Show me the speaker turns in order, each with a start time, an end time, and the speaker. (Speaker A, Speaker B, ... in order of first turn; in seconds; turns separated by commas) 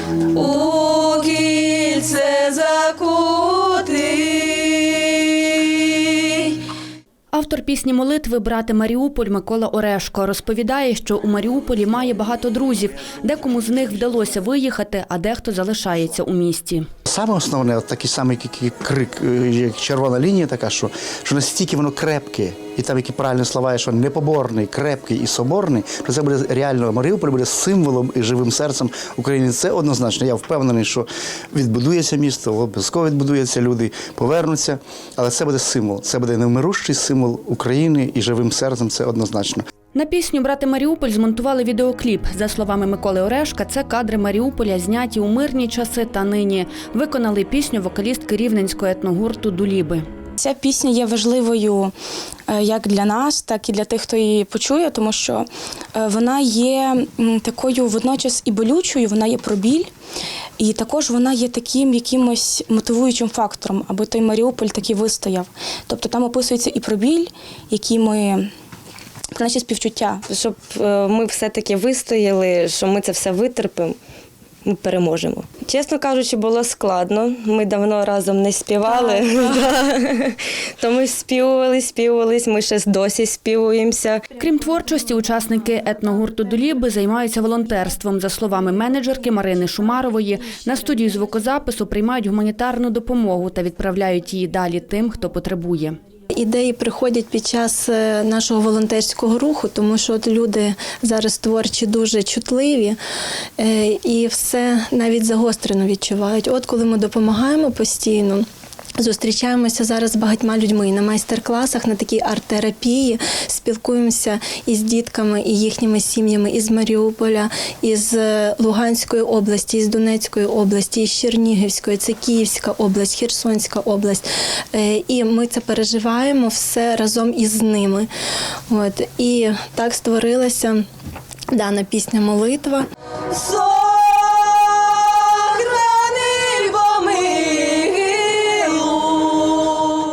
Speaker A: 0.3-6.5, Speaker B: 7.3-16.9, Speaker C: 17.1-39.6, Speaker B: 39.9-50.0, Speaker D: 50.4-51.9, Speaker D: 52.5-59.9, Speaker D: 60.6-68.5, Speaker D: 69.3-70.3, Speaker E: 70.3-74.0, Speaker E: 74.7-84.2, Speaker B: 84.4-96.0, Speaker F: 96.3-103.0, Speaker F: 103.6-108.5, Speaker F: 109.0-128.1, Speaker F: 128.7-130.8, Speaker F: 131.5-132.9, Speaker A: 133.3-139.9